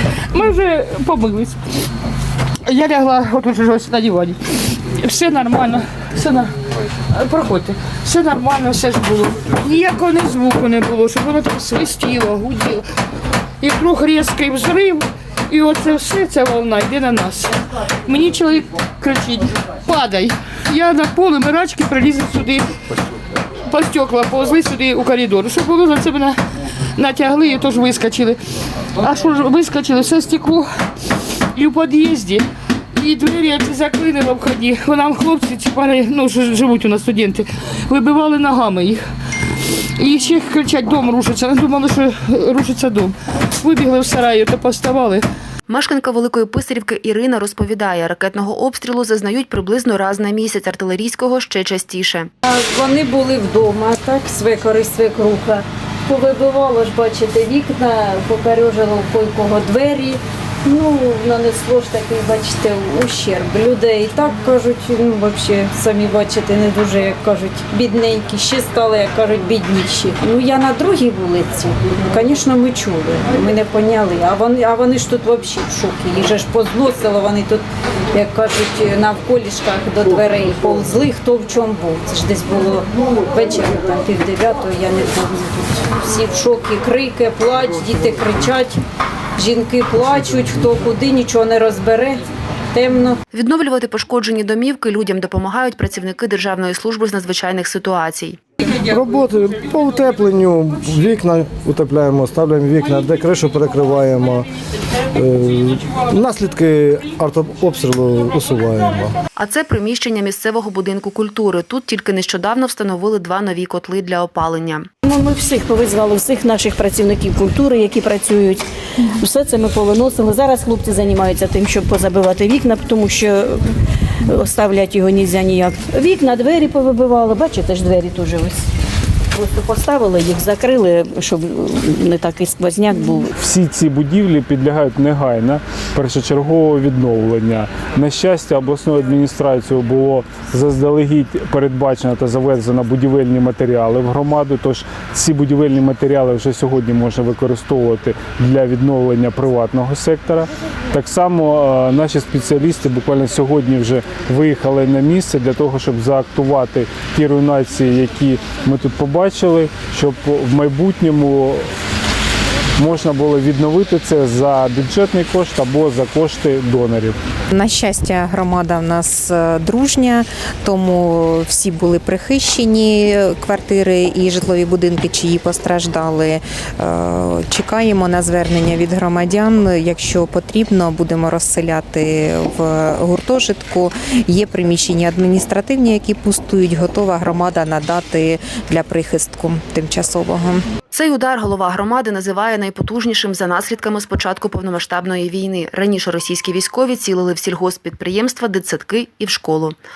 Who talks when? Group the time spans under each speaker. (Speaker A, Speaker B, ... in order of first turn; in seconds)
Speaker A: 0.3-1.6, 2.7-6.5, 7.1-12.8, 13.6-22.7, 23.7-26.4, 27.0-28.4, 29.0-30.7, 31.5-32.5, 33.0-39.0, 40.0-45.2
Speaker B: 45.7-52.3, 93.3-98.4, 109.4-114.9, 190.9-199.8
Speaker C: 52.5-88.8, 89.4-93.2
Speaker D: 98.7-104.5, 105.1-109.1
Speaker E: 115.0-118.7, 119.2-123.7, 124.3-128.6, 129.3-133.3
Speaker F: 133.4-161.7, 162.8-167.2
Speaker G: 167.5-190.7